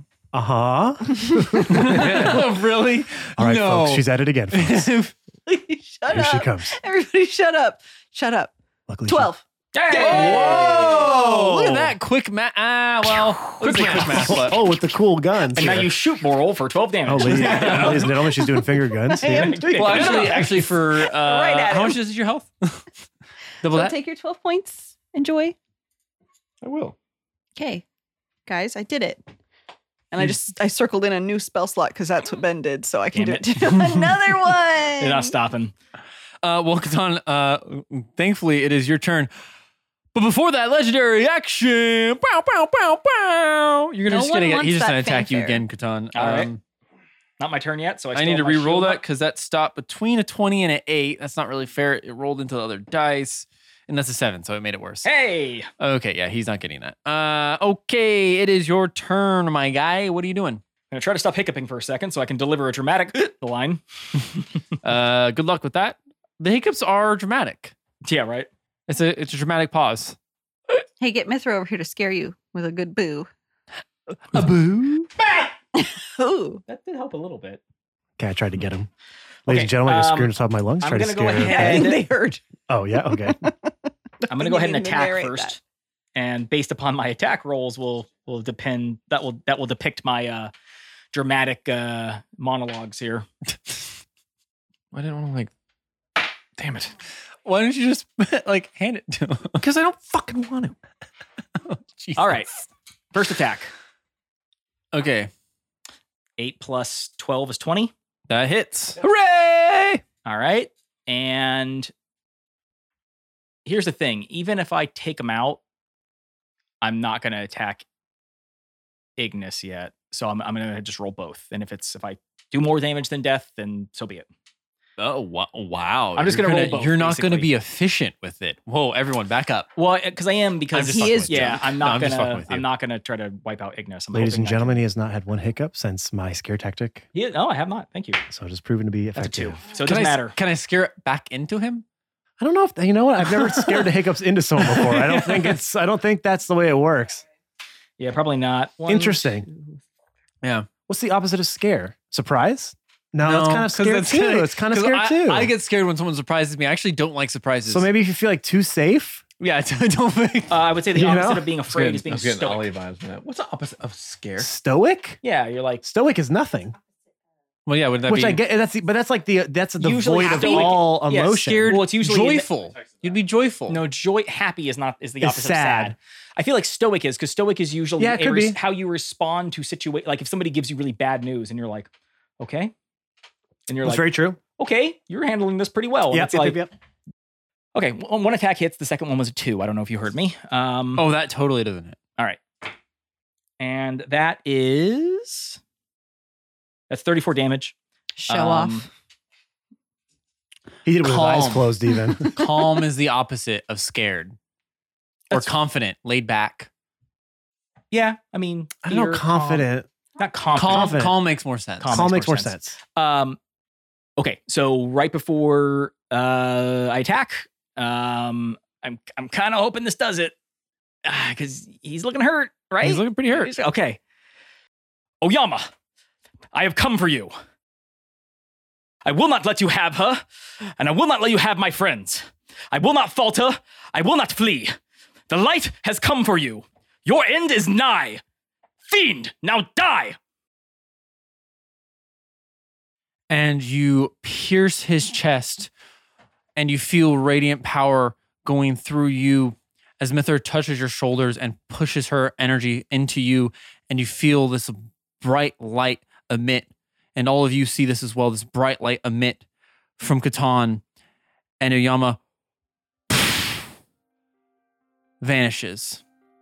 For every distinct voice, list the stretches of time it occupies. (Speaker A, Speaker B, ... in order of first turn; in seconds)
Speaker A: 0.3-2.4, 3.4-4.9, 6.1-6.7, 8.9-9.3, 13.9-15.9, 17.1-20.5, 78.2-78.9, 79.5-81.9, 82.7-83.4, 134.1-137.1, 138.3-139.6, 142.4-147.2, 148.9-149.4, 150.9-155.5, 157.7-159.2, 160.9-161.5, 164.4-165.2, 165.8-166.7, 168.1-171.7, 175.2-175.9, 178.0-178.6, 183.8-184.4, 186.1-186.7, 200.8-202.3, 208.8-209.9, 210.6-211.1, 211.9-212.8
Speaker B: 1.1-1.8, 5.5-8.5, 9.1-9.4, 9.9-11.4, 19.5-20.0, 20.9-22.0, 23.6-25.6, 27.6-27.8, 28.4-29.2, 30.1-35.3, 44.1-45.6, 71.0-73.3, 75.7-76.6, 81.3-82.4, 83.1-83.7, 84.2-85.6, 198.2-198.8
Speaker C: 1.7-5.1, 9.9-14.6, 17.2-18.1, 19.7-22.8, 23.6-23.9, 36.4-39.3, 40.1-46.6, 48.1-55.1, 55.8-60.6, 64.8-67.7, 68.9-70.2, 74.3-75.1, 97.4-99.7, 101.7-102.5, 104.9-105.3, 108.3-110.0, 125.0-129.7, 130.7-132.6, 139.8-141.8, 144.7-145.5, 153.2-157.9, 159.4-160.7, 167.7-168.4, 170.3-170.7, 171.4-173.8, 190.9-192.0, 201.0-201.7, 202.3-204.3, 205.3-206.7, 210.5-212.1, 222.8-223.5, 243.3-245.7, 246.6-259.4, 260.0-260.8, 261.6-262.2, 263.1-263.4, 265.2-266.0
Speaker D: 1.9-2.4, 10.2-11.8, 13.6-14.4, 26.6-26.9, 94.9-95.5, 96.6-96.9, 99.6-100.8, 161.7-164.5
Speaker E: 9.7-11.0, 15.5-18.2, 19.1-20.6, 33.1-35.7, 46.1-46.5, 47.4-49.0, 55.0-55.7, 60.9-64.4, 68.0-68.5, 76.7-77.6, 79.5-82.1, 84.3-85.6, 86.1-90.5, 91.1-93.2, 102.2-102.5, 103.1-103.7, 106.4-107.9, 110.2-111.9, 113.7-115.6, 116.8-117.8, 119.2-124.3, 126.2-127.5, 129.8-134.8, 137.1-138.2, 139.2-140.3, 148.0-149.8, 160.5-162.7, 165.2-165.8, 169.8-172.5, 173.7-181.9, 182.4-182.7, 183.7-186.6, 187.7-191.0, 193.6-195.6, 196.9-197.7, 198.3-198.9, 207.9-209.7, 210.2-211.0, 211.8-213.4, 214.2-220.3, 221.0-224.0, 225.2-225.7, 226.5-227.3, 229.0-230.2, 230.8-234.7, 235.3-238.2, 238.8-240.2